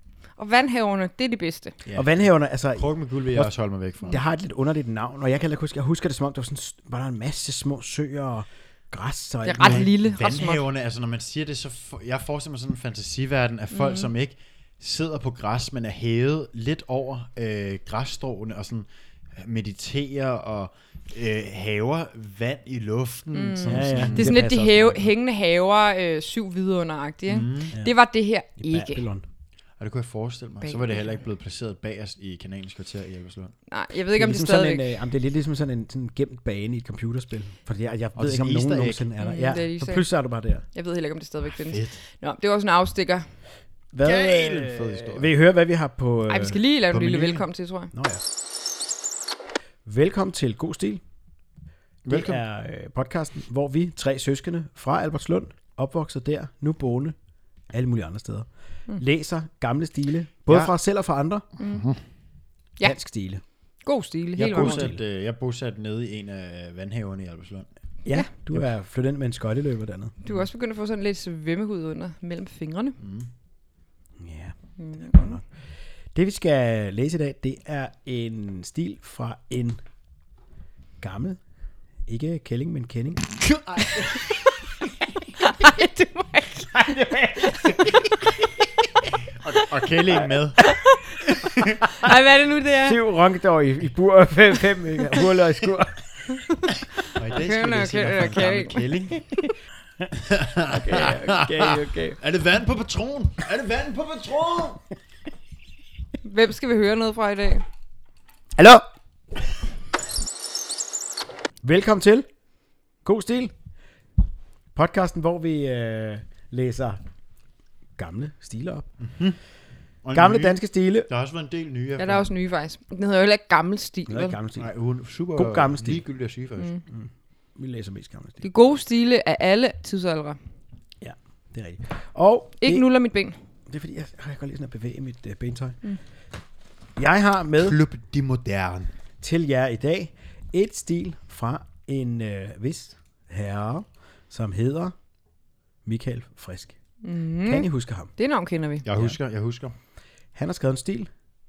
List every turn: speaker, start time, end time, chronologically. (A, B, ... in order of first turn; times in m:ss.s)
0:00.4-0:01.7 A
0:01.8-0:04.2 B
0:01.9-0:03.5 C
0:04.0-0:09.9 C
0:09.4-0:10.6 A
0:09.6-0:25.1 B
0:13.7-0:14.1 A
0:23.3-0:29.0 A
0:23.6-0:24.6 C
0:27.3-0:27.8 B
0:28.6-0:29.2 C
0:29.8-0:33.5 B
0:30.6-0:31.2 A
0:33.7-0:34.9 A
0:34.1-0:40.6 C
0:38.2-0:39.0 B
0:39.2-0:40.1 A
0:40.7-0:43.3 A
0:41.6-0:42.0 B
0:43.9-0:47.4 C
0:44.0-0:45.3 B
0:46.3-0:47.9 A
0:47.9-0:48.2 C
0:49.8-0:51.0 C
0:52.0-0:52.4 B
0:52.1-0:57.1 C
0:57.7-1:01.4 C
1:00.5-1:00.7 B
1:01.6-1:02.0 B
1:01.6-1:01.8 A
1:02.8-1:03.4 C
1:03.8-1:04.9 A
1:04.4-1:07.7 B
1:04.4-1:05.0 C
1:08.0-1:10.1 C
1:10.2-1:13.0 A
1:13.0-1:13.3 B
1:14.2-1:15.4 C
1:14.8-1:15.4 A
1:16.1-1:19.8 C
1:21.0-1:21.4 C
1:22.0-1:23.4 C
1:23.4-1:24.4 B
1:25.4-1:28.3 A
1:26.7-1:27.9 C
1:29.4-1:30.6 B
1:30.6-1:31.0 A
1:31.4-1:31.8 B
1:31.9-1:33.0 A
1:32.8-1:36.4 C
1:36.4-1:39.5 A
1:37.1-1:39.2 B
1:40.2-1:44.8 B
1:40.6-1:42.2 C
1:46.2-1:47.6 A
1:48.6-1:48.9 C
1:51.6-1:52.3 C
1:53.0-1:53.5 C
1:54.7-1:57.0 C
1:58.0-1:58.9 C
1:59.0-1:59.4 B
2:00.0-2:02.3 B
2:00.1-2:01.1 C
2:02.0-2:04.4 A
2:04.1-2:04.7 C
2:04.6-2:06.7 B
2:05.4-2:06.0 C
2:06.9-2:08.4 C
2:08.4-2:10.4 A
2:11.0-2:12.8 C
2:12.6-2:13.4 A
2:13.7-2:15.8 C
2:17.0-2:17.8 C
2:17.6-2:18.9 B
2:19.2-2:24.9 C
2:25.8-2:26.8 C
2:27.0-2:28.8 A
2:27.4-2:28.1 C
2:28.8-2:29.7 B
2:30.3-2:31.1 C